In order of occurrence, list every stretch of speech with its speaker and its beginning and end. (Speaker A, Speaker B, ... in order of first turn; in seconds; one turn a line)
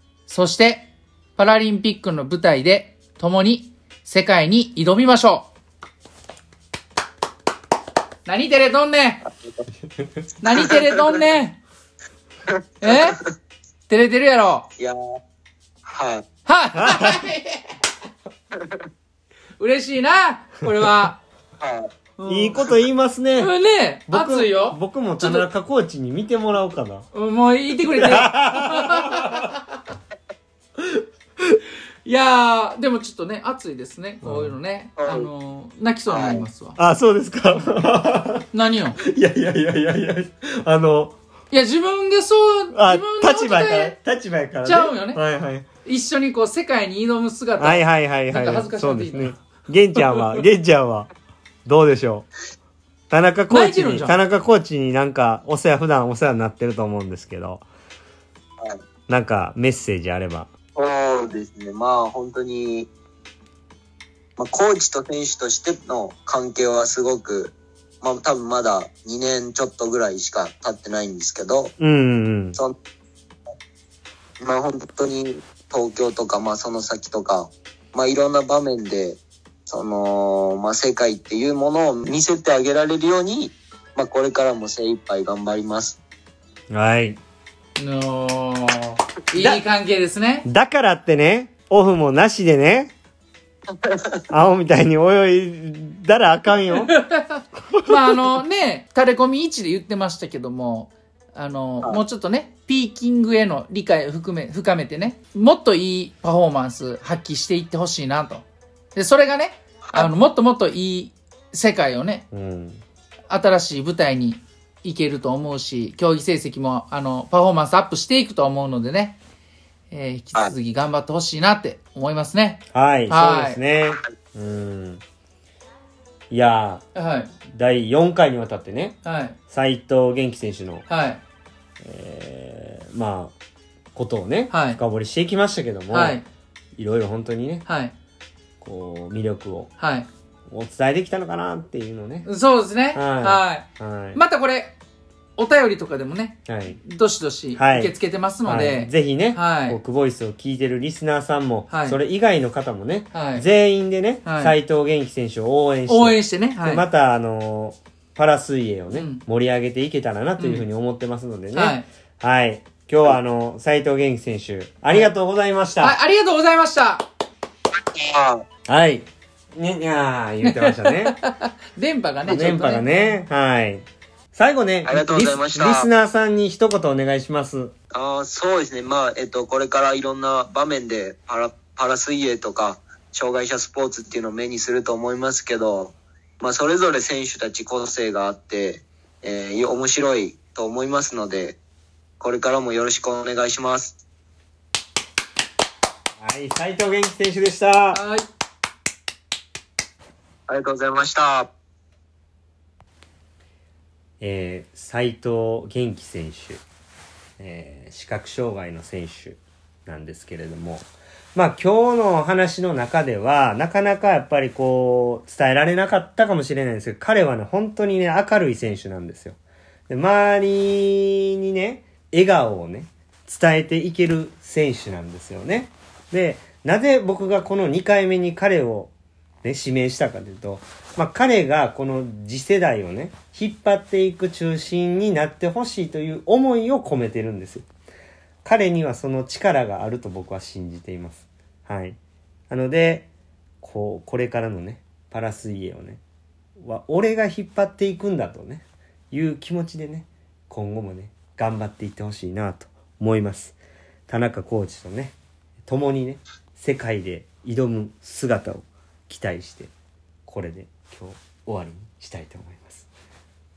Speaker A: 0.3-5.5
Speaker A: 8.2-9.2
Speaker A: 10.4-11.6
Speaker A: 12.8-13.2
Speaker B: 12.9-13.2
Speaker A: 13.9-14.7
Speaker B: 15.8-16.2
Speaker A: 16.4-17.7
Speaker C: 16.7-17.2
Speaker A: 19.6-21.2
Speaker B: 21.6-21.9
Speaker A: 22.2-22.7
Speaker C: 22.3-23.5
Speaker A: 23.4-25.5
Speaker C: 24.1-27.1
Speaker A: 27.1-29.6
Speaker C: 27.9-29.4
Speaker A: 32.0-36.8
Speaker C: 34.2-34.5
Speaker B: 35.0-35.3
Speaker B: 36.1-36.5
Speaker C: 36.8-38.5
Speaker A: 38.5-39.0
Speaker C: 39.0-41.2
Speaker A: 41.5-44.0
Speaker C: 42.7-45.6
Speaker A: 44.6-45.2
Speaker A: 45.8-49.4
Speaker C: 47.6-51.1
Speaker C: 51.6-52.3
Speaker C: 53.1-57.6
Speaker A: 53.5-54.2
Speaker C: 59.1-60.5
Speaker B: 60.7-62.9
Speaker B: 64.4-71.7
Speaker C: 71.8-72.6
Speaker B: 74.4-86.0
Speaker C: 86.7-87.2
Speaker A: 87.8-90.5
Speaker C: 90.4-92.9
Speaker C: 94.3-96.9
Speaker A: 96.9-112.3
Speaker C: 112.3-112.8
Speaker A: 113.3-119.2
Speaker A: 119.9-123.6
Speaker C: 122.7-125.0
Speaker C: 126.3-126.8
Speaker A: 126.9-127.3
Speaker C: 127.5-130.9
Speaker A: 129.0-129.3
Speaker A: 130.9-131.2
Speaker C: 131.8-133.3
Speaker C: 133.9-136.2
Speaker A: 134.5-134.8
Speaker A: 135.9-136.2
Speaker C: 136.8-137.7
Speaker A: 137.7-137.9
Speaker C: 138.6-139.7
Speaker A: 139.8-140.1
Speaker C: 140.5-142.3
Speaker A: 142.2-144.8
Speaker C: 142.9-144.2
Speaker A: 145.3-149.8
Speaker C: 146.5-146.8
Speaker C: 147.5-166.0
Speaker A: 151.7-152.0
Speaker A: 153.1-153.5
Speaker A: 154.2-154.6
Speaker A: 155.9-156.8
Speaker A: 158.9-159.2
Speaker A: 160.4-160.7
Speaker A: 161.5-161.9
Speaker A: 165.8-167.1
Speaker B: 167.9-168.4
Speaker C: 168.7-171.2
Speaker A: 170.4-173.2
Speaker C: 172.2-177.7
Speaker B: 174.8-175.9
Speaker B: 177.9-191.6
Speaker B: 192.2-194.0
Speaker C: 196.2-198.0
Speaker A: 197.9-198.2
Speaker B: 200.5-201.5
Speaker C: 204.2-206.6
Speaker C: 207.4-219.4
Speaker C: 219.9-228.9
Speaker C: 229.4-237.7
Speaker C: 238.4-242.0
Speaker C: 242.5-243.1
Speaker C: 243.6-246.0
Speaker C: 246.6-253.6
Speaker C: 254.1-259.7
Speaker C: 260.2-262.9